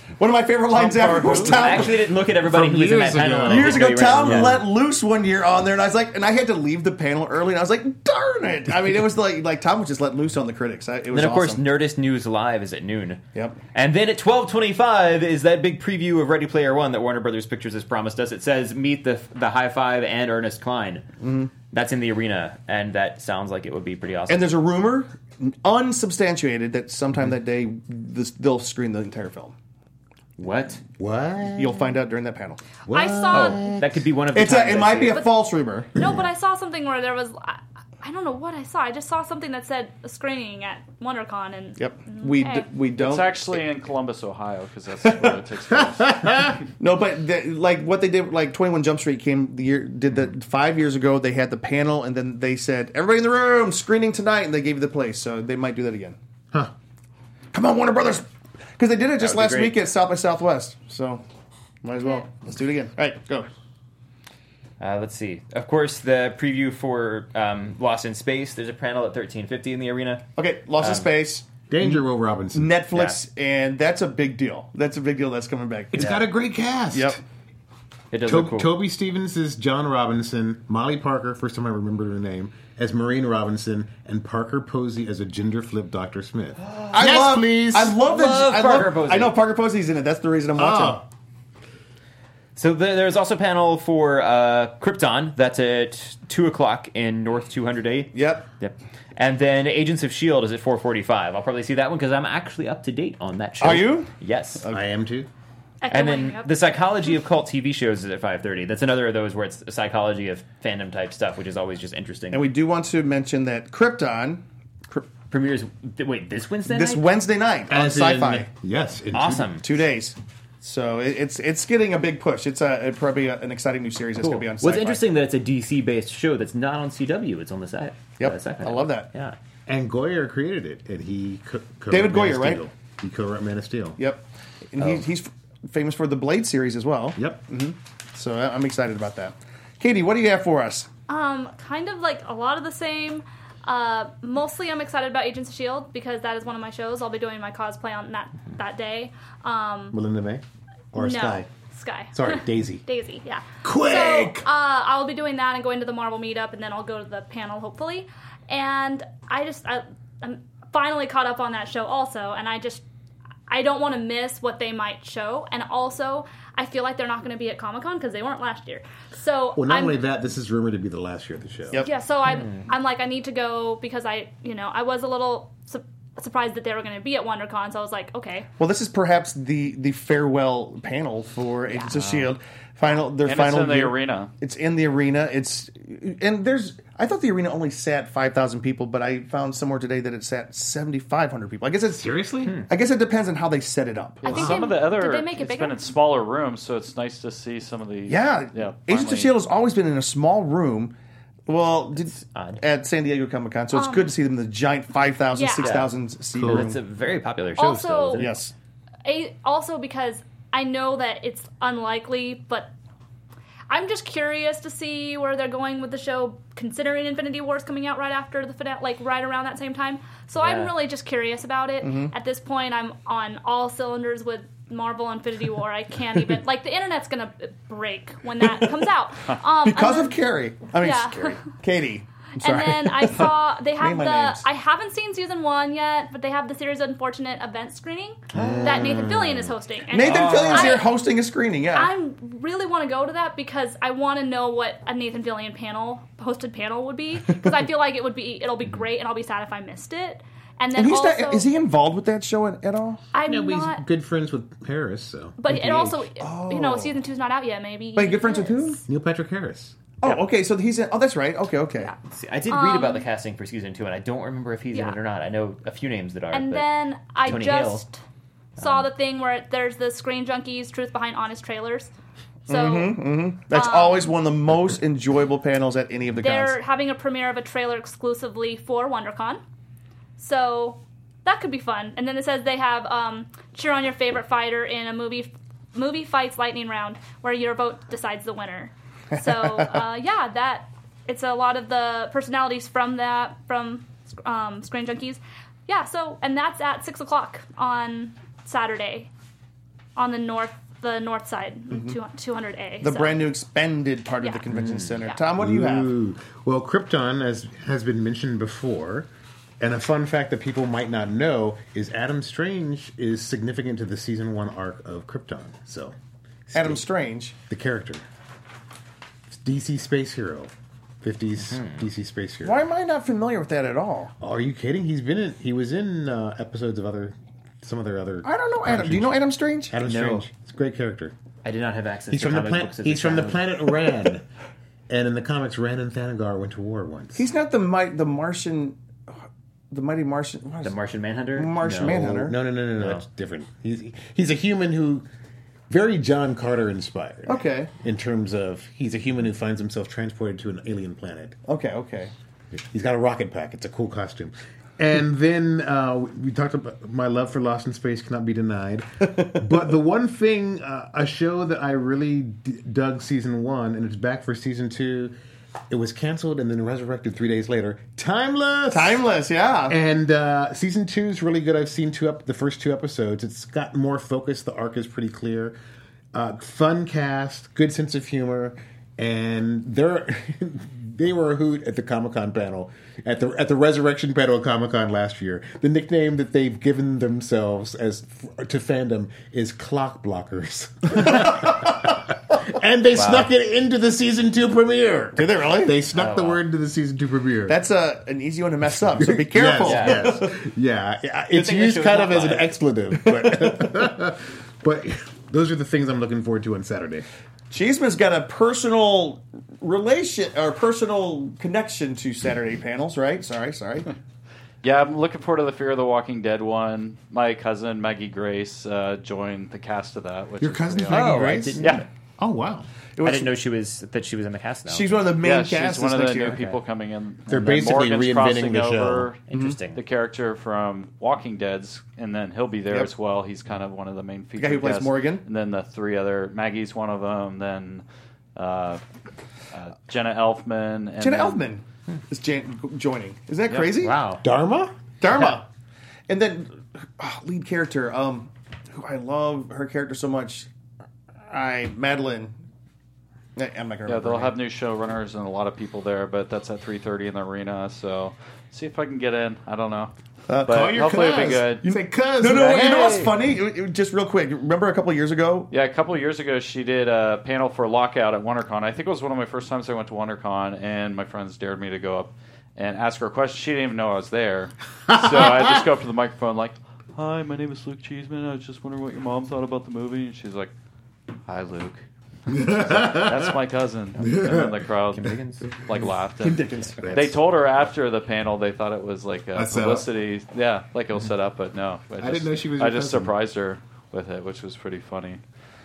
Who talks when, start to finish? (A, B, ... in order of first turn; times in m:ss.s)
0:00.2-0:02.0 A
0:00.7-0:01.9 B
0:01.3-0:04.6 C
0:02.4-0:04.6 D
0:03.4-0:11.6 A
0:11.1-0:21.1 C
0:21.2-0:21.5 A
0:21.7-0:24.5 C
0:24.3-0:29.5 A
0:30.4-0:30.8 C
0:31.0-0:31.9 D
0:31.5-0:32.6 A
0:32.9-0:34.1 D
0:32.9-0:33.8 E
0:33.3-0:35.3 C
0:34.3-0:36.0 A
0:36.0-0:42.7 E
0:41.8-0:43.6 A
0:43.0-0:46.6 B
0:45.0-0:45.4 A
0:45.7-0:46.6 D
0:46.8-0:56.2 A
0:57.5-1:01.2 A
0:59.2-0:59.8 C
1:01.8-1:03.5 A
1:04.8-1:10.3 C
1:10.4-1:16.0 A
1:10.8-1:11.1 C
1:11.7-1:12.8 D
1:12.9-1:13.2 C
1:15.9-1:17.2 D
1:16.0-1:16.2 C
1:16.9-1:17.2 A
1:18.1-1:18.7 C
1:18.2-1:28.0 D
1:26.6-1:27.3 C
1:26.9-1:31.0 A
1:27.9-1:29.4 C
1:30.6-1:31.0 D
1:32.6-1:44.6 C
1:38.1-1:38.5 A
1:43.6-1:44.8 A
1:44.7-1:45.3 D
1:45.8-1:46.6 E
1:45.9-1:52.5 C
1:52.3-1:55.1 A
1:55.3-1:57.0 C
1:56.7-1:58.5 A
1:57.7-1:59.6 D
1:59.1-1:59.6 C
1:59.6-2:05.1 A
2:04.2-2:09.4 C
2:08.2-2:09.1 A
2:09.7-2:14.0 D
2:11.9-2:12.6 A
2:14.0-2:20.9 A
2:17.2-2:17.4 D
2:21.1-2:30.0 E
2:29.9-2:31.5 D
2:30.9-2:42.8 E
2:32.1-2:32.8 D
2:33.6-2:34.5 D
2:43.5-2:50.0 E
2:49.6-2:51.8 D
2:51.8-2:58.5 E
2:52.3-2:52.7 C
2:58.6-3:12.0 A
3:01.7-3:02.0 E
3:03.2-3:04.3 B
3:11.9-3:12.7 D
3:12.7-3:14.5 A
3:14.2-3:15.8 E
3:14.3-3:19.3 B
3:14.3-3:14.7 D
3:18.1-3:20.9 A
3:21.5-3:26.8 A
3:22.2-3:22.6 C
3:23.7-3:24.1 E
3:25.4-3:25.9 E
3:25.6-3:25.9 C
3:26.3-3:26.7 D
3:26.4-3:28.4 C
3:27.6-3:28.2 E
3:28.2-3:28.5 A
3:29.0-3:32.7 E
3:33.7-3:50.2 E
3:40.4-3:40.7 C
3:41.8-3:42.1 A
3:49.6-3:54.4 A
3:50.7-3:51.4 E
3:52.4-4:00.9 E
3:58.3-3:59.6 D
3:59.9-4:01.9 A
4:00.0-4:00.8 C
4:01.7-4:11.5 E
4:10.8-4:13.0 A
4:13.1-4:13.8 E
4:13.3-4:16.0 D
4:15.4-4:18.8 E
4:16.2-4:17.0 A
4:18.0-4:18.8 A
4:18.9-4:19.8 D
4:20.0-4:21.9 A
4:22.1-4:26.6 C
4:22.5-4:23.1 E
4:26.3-4:28.0 E
4:27.2-4:27.8 C
4:28.6-4:28.9 C
4:28.6-4:31.9 E
4:32.5-4:33.0 E
4:32.5-4:36.6 A
4:33.5-4:34.1 E
4:36.2-4:39.4 E
4:40.2-4:59.1 E
4:49.1-4:49.8 A
5:00.0-5:03.3 E
5:01.7-5:02.0 A
5:02.8-5:05.9 A
5:05.4-5:16.0 D
5:16.5-5:16.8 D
5:16.5-5:17.4 A
5:17.5-5:18.0 D
5:19.3-5:20.5 D
5:21.0-5:22.6 D
5:21.4-5:21.8 C
5:22.4-5:24.1 A
5:24.2-5:31.2 D
5:28.2-5:29.8 A
5:29.8-5:30.2 C
5:31.4-5:33.7 C
5:32.1-5:34.3 D
5:34.9-5:37.3 D
5:37.2-5:39.1 A
5:39.7-5:40.8 A
5:40.6-5:42.1 C
5:41.4-5:42.4 A
5:41.8-5:45.1 D
5:45.7-5:51.4 D
5:47.3-5:47.7 A
5:51.5-5:52.1 A
5:52.5-6:05.1 D
5:59.0-5:59.4 A
6:05.7-6:09.0 D
6:08.7-6:09.8 A
6:09.7-6:15.6 D
6:16.1-6:37.6 D
6:31.0-6:31.7 A
6:33.0-6:33.3 C
6:35.2-6:35.8 A
6:36.0-6:36.4 C
6:37.5-6:40.3 A
6:38.7-6:47.1 D
6:39.6-6:40.2 C
6:41.3-6:42.5 C
6:43.0-6:43.9 A
6:47.5-6:53.9 A
6:54.6-7:01.8 B
7:00.4-7:01.8 A
7:00.9-7:01.6 D
7:00.9-7:01.8 C
7:02.2-7:02.7 D
7:03.0-7:03.3 A
7:03.0-7:05.1 C
7:04.7-7:06.4 A
7:05.2-7:17.8 B
7:07.3-7:09.1 D
7:09.3-7:09.8 C
7:09.3-7:09.6 A
7:14.4-7:15.2 A
7:18.4-7:18.8 B
7:19.5-7:21.5 B
7:21.0-7:24.0 A
7:23.8-7:24.2 C
7:24.2-7:24.7 D
7:25.0-7:25.5 A
7:26.1-7:30.5 A
7:31.3-7:32.3 A
7:33.4-7:34.4 A
7:33.9-7:39.9 B
7:40.3-7:45.5 A
7:40.5-7:41.7 B
7:40.5-7:43.1 D
7:42.3-7:43.1 B
7:45.5-8:00.5 B
7:54.9-7:55.6 D
8:01.3-8:15.2 B
8:02.3-8:03.4 D
8:04.0-8:05.8 D
8:04.9-8:05.5 C
8:06.2-8:06.9 A
8:06.8-8:07.2 D
8:09.4-8:09.9 D
8:12.0-8:13.2 D